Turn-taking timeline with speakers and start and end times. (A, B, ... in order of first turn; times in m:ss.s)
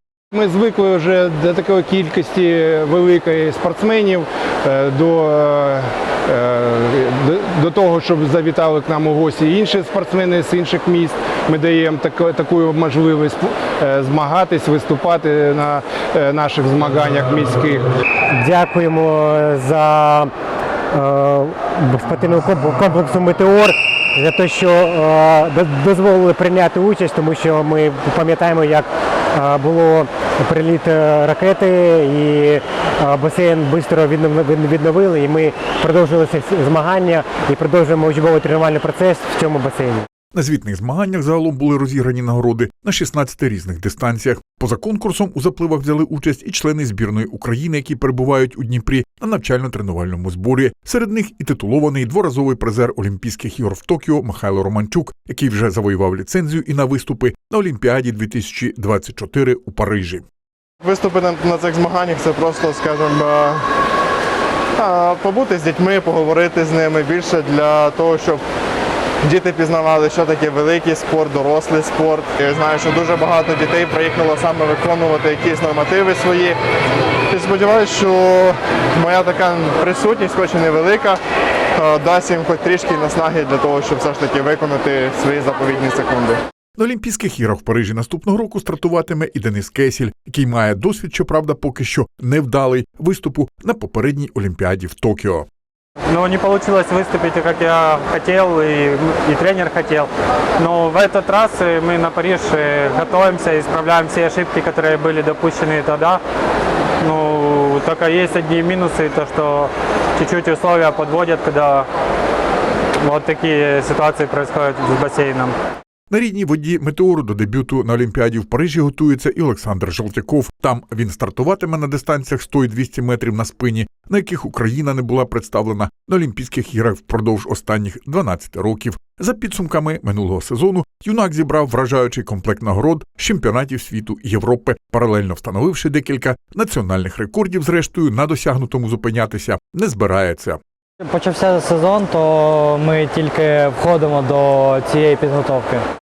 0:00.3-0:17.9 A
0:18.4-0:20.3 B
0:20.9-0:40.0 B
0:40.3-1:00.2 C
1:00.8-1:03.6 D
1:04.8-1:08.4 D
1:09.2-1:16.6 D
1:17.3-1:21.2 D
1:21.7-1:26.4 D
1:26.8-1:35.5 C
1:36.1-1:46.2 E
1:47.0-1:51.9 E
1:53.0-1:55.6 E
1:56.1-2:20.6 C
2:21.0-2:25.8 F